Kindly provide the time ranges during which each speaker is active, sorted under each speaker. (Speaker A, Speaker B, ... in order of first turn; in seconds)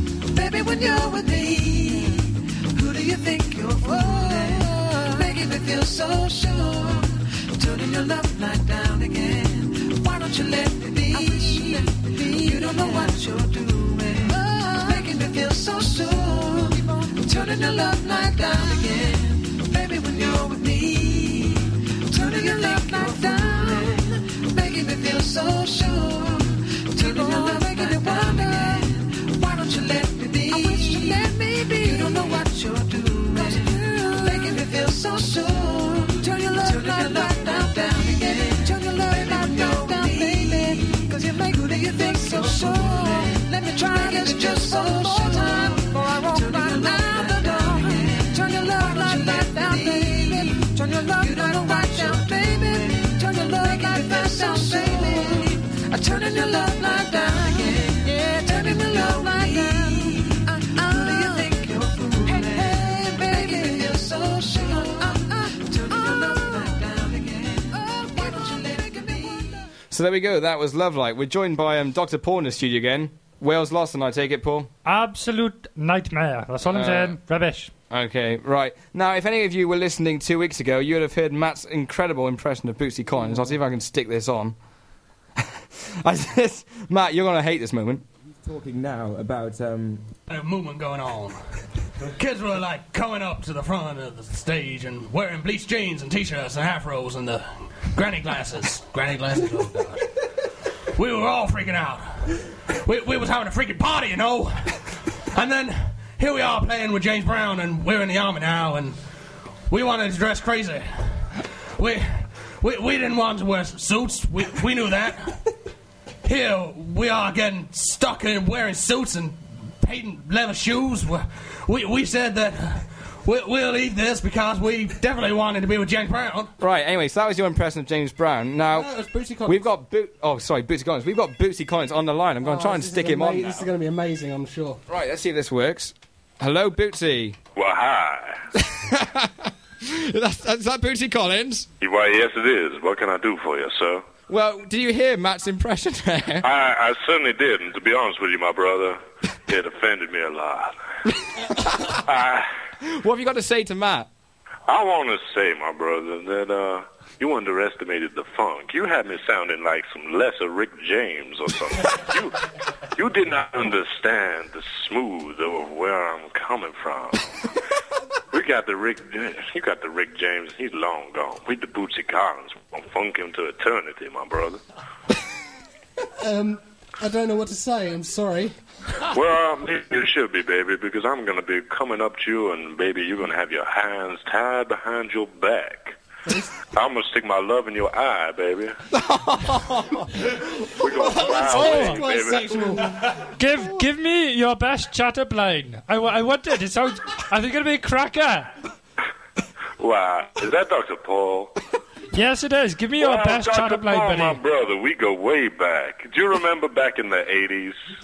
Speaker A: 0.3-69.6
Speaker B: 69.9-74.7, 76.7-77.2, 77.9-84.6, 85.8-90.0, 126.6-128.9, 129.4-133.7, 134.9-137.4, 138.6-141.7, 144.3-146.5, 151.5-152.0, 152.8-154.1, 188.9-189.9
Speaker C: 74.8-77.7, 193.3-198.5, 202.1-204.4
Speaker D: 90.3-91.4, 92.2-100.1, 101.0-109.0, 109.7-111.2, 111.8-115.5, 116.2-126.5, 128.7-129.7, 132.4-134.8, 176.2-178.6, 186.3-186.6, 190.8-193.8
Speaker E: 137.6-138.4, 141.8-144.1, 146.4-150.8, 152.1-152.5, 154.7-167.3, 168.3-174.6, 179.1-186.0, 186.7-188.8, 190.8-192.9, 199.8-201.5, 203.0-207.8